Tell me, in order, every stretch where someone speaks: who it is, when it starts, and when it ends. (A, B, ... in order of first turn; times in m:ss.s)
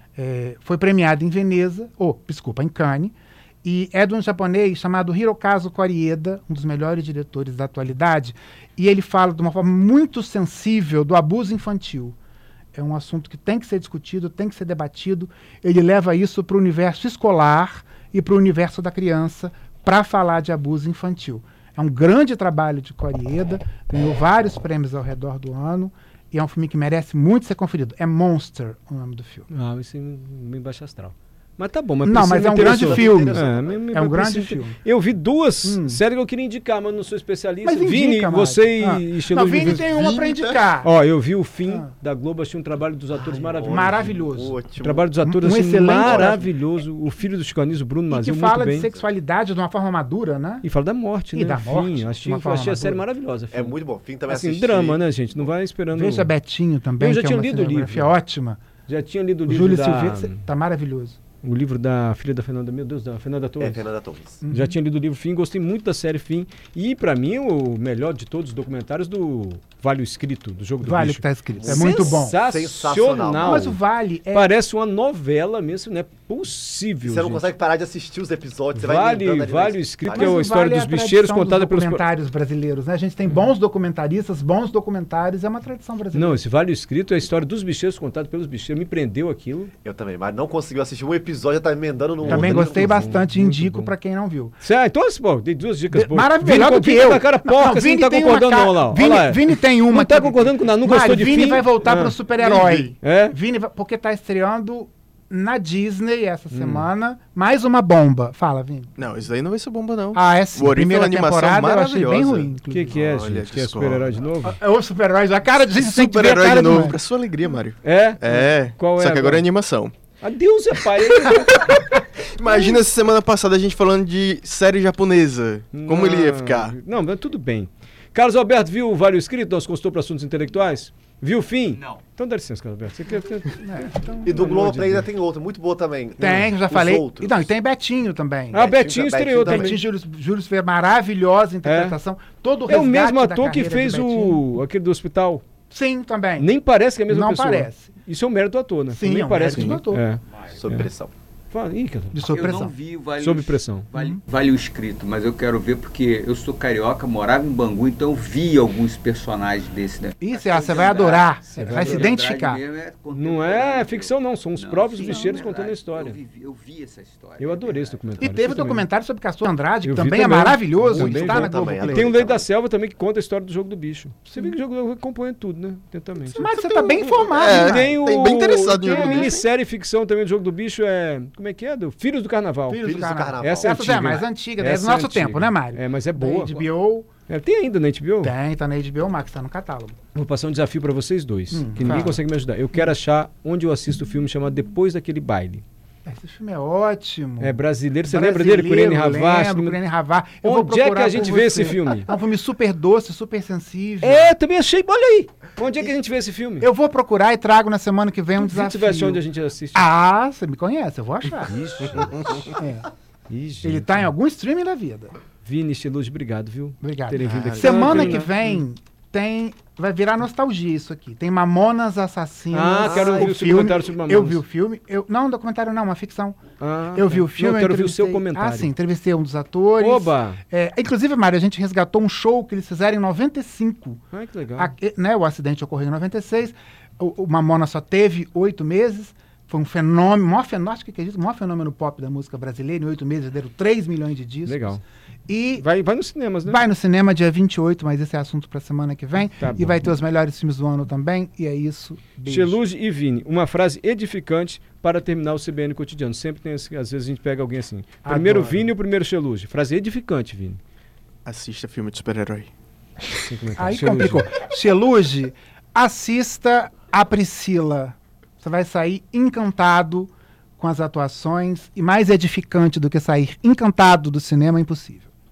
0:00.2-0:12.2 A
0:12.7-0:29.5 A
0:29.5-0:40.2 B
0:32.0-0:34.8 A
0:32.5-0:33.8 C
0:35.6-0:36.0 A
0:37.6-0:40.9 A
0:39.9-0:40.6 C
0:40.8-0:44.2 B
0:43.1-0:45.1 C
0:43.6-0:44.6 A
0:44.8-0:48.9 B
0:45.2-0:46.4 A
0:46.0-0:46.5 C
0:48.1-0:50.7 A
0:50.6-0:53.8 B
0:51.3-0:53.0 A
0:53.5-0:55.4 C
0:54.3-0:56.3 B
0:55.9-0:58.6 A
0:57.0-0:58.1 B
0:58.9-1:00.4 B
0:59.5-1:01.2 A
1:01.4-1:03.9 B
1:03.6-1:04.4 C
1:04.4-1:04.8 A
1:04.5-1:13.8 B
1:10.8-1:12.4 A
1:11.6-1:13.8 C
1:13.4-1:14.5 A
1:14.3-1:17.5 B
1:17.0-1:20.4 C
1:18.7-1:22.0 B
1:20.1-1:26.4 A
1:26.1-1:29.7 B
1:29.8-1:33.1 C
1:32.2-1:33.9 B
1:32.2-1:34.6 A
1:34.6-1:42.2 B
1:35.9-1:48.9 A
1:42.4-1:42.9 D
1:43.0-1:43.4 B
1:46.5-1:46.9 B
1:49.0-1:54.1 D
1:50.1-1:53.0 A
1:52.7-1:54.6 B
1:54.4-1:57.0 A
1:55.7-2:00.0 D
1:57.8-1:59.5 B
2:00.2-2:01.7 B
2:01.3-2:06.8 D
2:05.7-2:15.1 B
2:13.5-2:14.6 A
2:14.2-2:17.5 C
2:16.2-2:18.7 A
2:18.5-2:19.8 B
2:18.5-2:19.8 C
2:19.4-2:24.4 A
2:21.6-2:22.0 B
2:22.7-2:25.4 B
2:25.7-2:26.5 A
2:26.4-2:30.9 B
2:27.1-2:27.9 A
2:28.9-2:30.0 A
2:30.3-2:30.7 E
2:30.6-2:31.1 C
2:31.5-2:32.3 B
2:32.1-2:32.8 A
2:32.2-2:48.3 E
2:33.2-2:33.9 B
2:33.9-2:34.2 A
2:40.2-2:42.6 A
2:41.5-2:42.1 B
2:43.1-2:46.2 B
2:47.4-2:48.9 B
2:48.2-2:52.1 A
2:49.8-2:56.5 B
2:50.9-2:52.5 C
2:56.3-2:58.0 A
2:56.4-2:57.2 C
2:57.2-2:59.4 D
2:57.4-3:02.8 B
2:58.8-2:59.4 A
3:02.7-3:07.1 A
3:02.8-3:04.2 C
3:03.4-3:06.6 B
3:07.3-3:08.4 B
3:08.2-3:10.0 A
3:10.1-3:15.6 B
3:11.5-3:12.2 A
3:16.1-3:24.4 A
3:17.4-3:19.8 B
3:20.4-3:22.1 B
3:24.0-3:26.7 B
3:26.6-3:32.9 A
3:28.4-3:29.9 B
3:31.4-3:32.6 B
3:33.3-3:34.1 B
3:33.6-3:35.1 A
3:35.4-3:38.6 B
3:36.8-3:46.4 A
3:37.2-3:38.1 C
3:42.5-3:44.4 B
3:42.8-3:43.4 C
3:46.6-3:48.7 B
3:46.9-3:54.0 A
3:49.8-3:50.4 B
3:54.1-3:54.7 B
3:54.6-4:05.6 A
4:04.5-4:04.8 B
4:05.6-4:06.6 B
4:06.4-4:12.6 A
4:09.4-4:09.8 B
4:12.3-4:20.6 B
4:18.0-4:18.7 A
4:21.3-4:22.5 D
4:23.2-4:24.3 B
4:23.6-4:35.1 A